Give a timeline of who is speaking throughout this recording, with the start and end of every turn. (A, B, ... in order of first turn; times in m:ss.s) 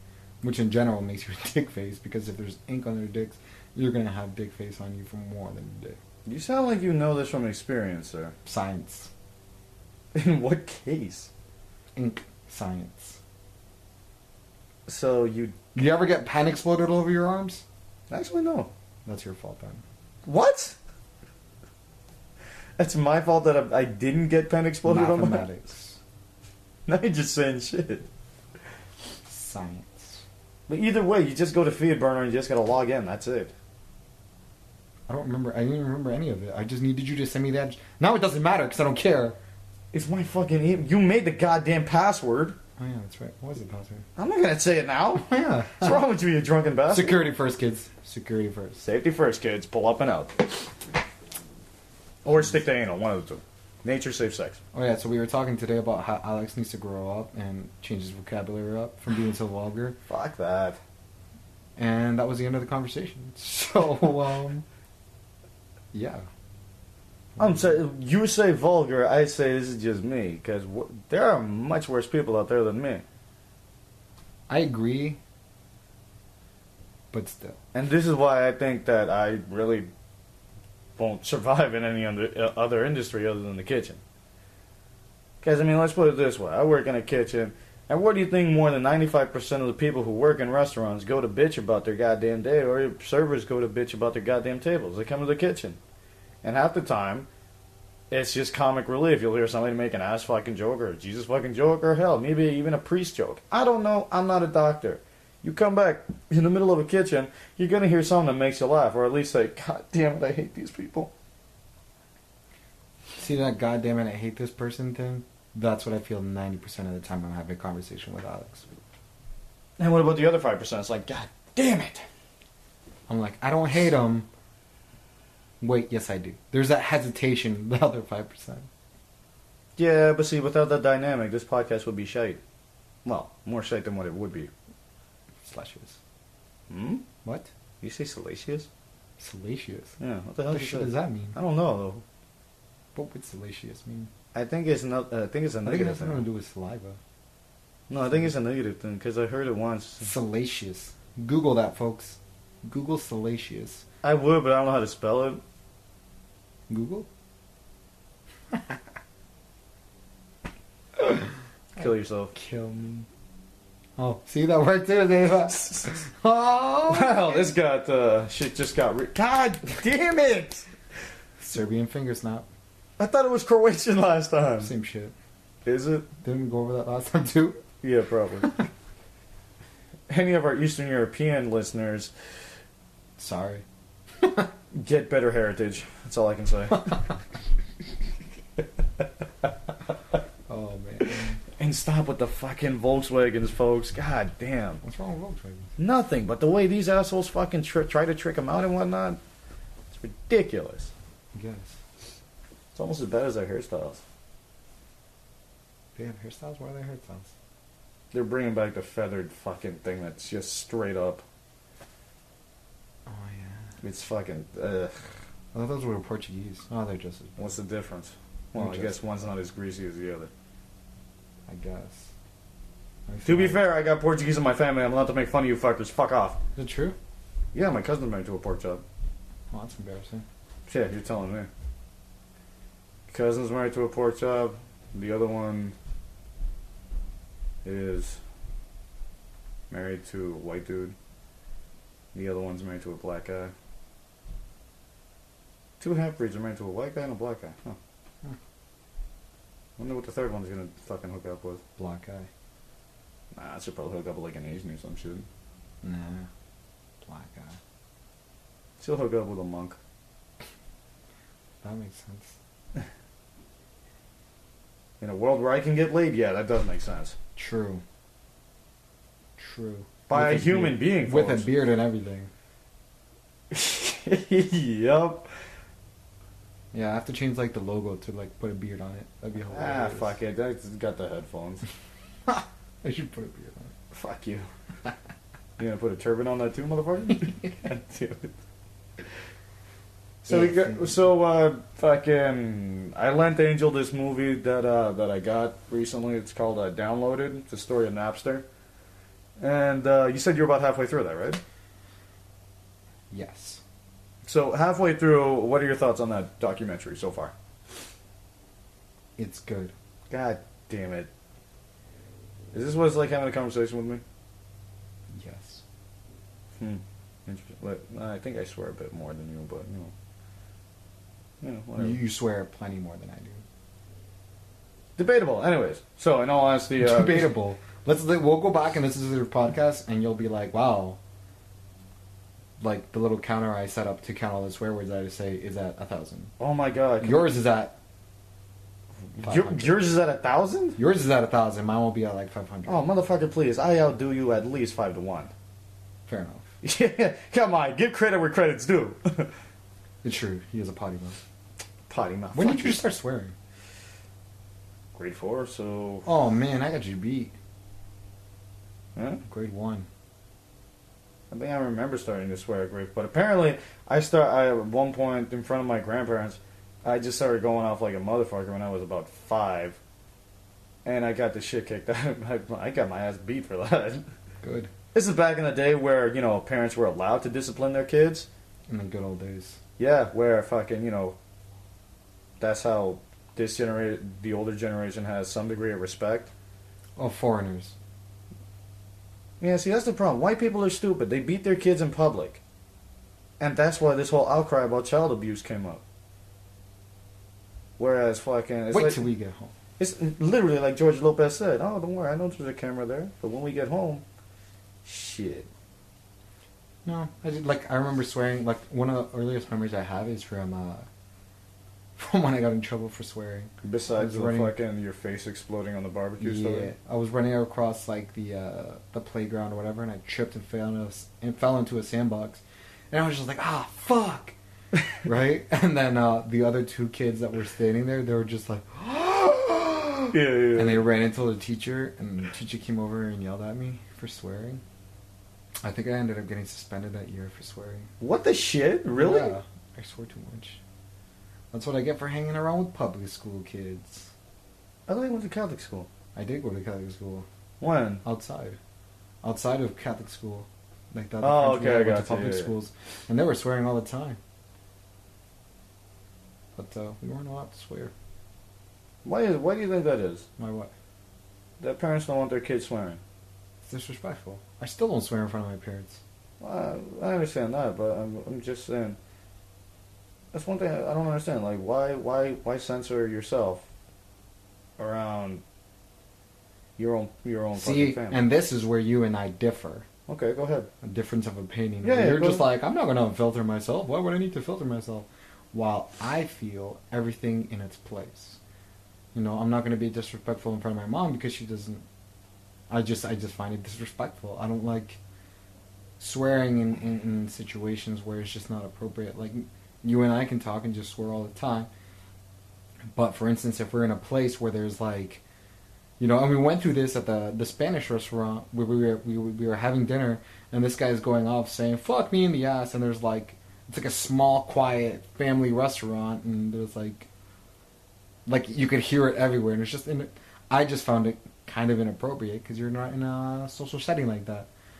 0:00.4-0:06.0 A
0:06.3-0:08.4 B
0:08.4-0:09.1 A
0:10.1-0:11.3 B
0:12.0-0:13.2 A
0:14.9-0:15.6 B
0:15.8-0:17.6 A
0:18.1-0:18.7 B
0:19.1-0:19.8 A
0:20.3-0:20.8 B
0:22.8-0:25.5 B
0:24.8-0:26.0 A
0:26.9-0:28.1 B
0:29.3-0:30.2 A
0:30.7-0:33.5 B
0:35.1-0:39.4 A
0:39.9-0:42.6 B
0:42.8-0:44.1 A
0:44.2-0:47.3 B
0:45.2-0:46.0 A
0:46.9-0:48.8 A
0:48.8-0:50.5 B
0:52.2-0:54.6 B
0:54.7-1:00.0 A
1:00.1-1:00.8 B
1:01.8-1:04.6 A
1:05.9-1:06.3 A
1:07.4-1:07.8 A
1:07.4-1:13.0 B
1:14.5-1:15.2 A
1:17.1-1:17.6 A
1:17.7-1:19.9 B
1:21.0-1:24.0 B
1:25.4-1:35.8 B
1:36.4-1:37.3 B
1:38.1-1:51.1 B
1:53.2-1:58.7 A
1:59.8-2:02.0 B
2:03.1-2:04.3 A
2:05.6-2:08.7 A
2:09.8-2:12.4 B
2:13.0-2:14.5 B
2:15.4-2:16.0 A
2:16.7-2:17.0 B
2:17.2-2:17.5 A
2:17.8-2:18.7 B
2:19.2-2:19.9 A
2:20.0-2:22.0 B
2:20.5-2:21.4 A
2:23.0-2:24.1 A
2:24.3-2:26.2 B
2:25.6-2:27.0 A
2:27.9-2:30.1 B
2:30.0-2:33.8 A
2:34.0-2:35.4 B
2:36.7-2:37.1 A
2:41.8-2:42.3 B
2:41.8-2:43.1 A
2:44.0-2:47.5 A
2:46.9-2:50.7 B
2:51.4-2:52.5 A
2:53.0-2:54.7 B
2:54.6-2:55.1 A
2:55.6-2:56.1 B
2:56.2-2:57.6 A
2:57.8-2:58.6 B
3:00.1-3:02.1 B
3:03.2-3:03.6 A
3:04.2-3:04.5 A
3:04.7-3:07.0 B
3:10.5-3:11.4 A
3:11.6-3:14.8 B
3:14.8-3:15.7 A
3:15.8-3:19.2 B
3:19.9-3:20.9 B
3:21.3-3:21.8 A
3:22.8-3:24.0 B
3:26.0-3:27.3 A
3:28.1-3:31.2 B
3:33.1-3:33.7 A
3:33.8-3:35.0 B
3:35.5-3:37.5 A
3:37.4-3:40.3 B
3:38.6-3:39.0 A
3:41.5-3:42.1 A
3:43.1-3:43.6 A
3:43.2-3:46.4 B
3:46.6-3:47.0 A
3:47.5-3:48.8 B
3:49.5-3:50.3 A
3:50.7-3:51.5 B
3:53.1-3:55.8 B
3:57.6-3:58.2 B
3:59.7-4:01.0 B
4:02.1-4:03.5 B
4:05.8-4:07.8 B
4:09.8-4:11.6 B
4:11.8-4:12.3 A
4:13.4-4:15.3 B
4:15.8-4:16.3 A
4:17.0-4:17.6 A
4:18.8-4:19.8 B
4:21.6-4:22.4 A
4:25.0-4:27.2 B
4:27.4-4:27.8 A
4:29.4-4:32.3 A
4:30.1-4:31.5 B
4:33.5-4:35.3 B
4:36.7-4:40.2 A
4:39.5-4:41.6 B
4:42.3-4:43.7 A
4:43.9-4:44.5 B
4:45.6-4:48.3 B
4:50.2-4:51.0 A
4:50.3-4:58.4 B
4:59.4-5:01.4 B
5:03.1-5:03.6 A
5:04.2-5:07.3 B
5:09.2-5:09.7 A
5:10.1-5:11.1 B
5:12.5-5:14.0 B
5:15.1-5:15.6 A
5:16.6-5:19.9 B
5:21.4-5:22.0 B
5:21.8-5:23.4 A
5:25.0-5:27.3 B
5:26.8-5:31.0 A
5:32.6-5:36.3 A
5:36.4-5:37.3 B
5:37.0-5:37.8 A
5:39.2-5:40.8 B
5:39.2-5:39.8 A
5:40.8-5:42.8 A
5:42.7-5:45.3 B
5:46.1-5:46.4 A
5:46.6-5:49.3 B
5:50.0-5:51.2 A
5:51.9-5:52.8 B
5:52.3-5:53.3 A
5:54.9-5:56.1 B
5:56.0-5:57.3 A
5:59.0-5:59.2 B
5:59.3-5:59.9 A
6:01.3-6:09.8 B
6:10.8-6:14.0 B
6:14.4-6:14.7 A
6:14.9-6:18.3 B
6:18.7-6:19.6 A
6:19.8-6:21.2 B
6:22.4-6:26.3 B
6:27.0-6:27.8 A
6:29.4-6:32.4 B
6:33.4-6:35.8 B
6:37.8-6:39.1 B
6:38.7-6:39.5 A
6:39.8-6:44.0 B
6:44.8-6:45.5 B
6:46.8-6:50.9 A
6:52.0-6:54.5 A
6:53.6-6:56.7 B
6:56.2-7:04.4 A
7:05.0-7:14.6 A
7:10.1-7:10.8 B
7:15.6-7:17.9 A
7:18.0-7:19.3 B
7:19.0-7:20.6 A
7:21.5-7:24.1 A
7:24.9-7:25.9 B
7:26.2-7:27.3 A
7:27.6-7:28.0 B
7:28.0-7:28.6 A
7:29.2-7:34.2 A
7:31.2-7:32.5 B
7:36.6-7:37.9 A
7:39.0-7:40.3 B
7:40.4-7:40.7 A
7:41.6-7:43.0 B
7:43.6-7:46.0 A
7:46.4-7:49.0 B
7:50.3-7:53.7 B
7:54.8-7:55.4 B
7:56.8-7:58.2 B
7:57.6-7:59.9 A
8:00.1-8:00.7 B
8:00.8-8:08.4 A
8:01.8-8:02.5 B
8:09.1-8:11.8 A
8:12.7-8:15.0 A
8:16.0-8:21.7 A
8:22.9-8:25.2 A
8:26.0-8:37.1 A
8:38.3-8:44.5 A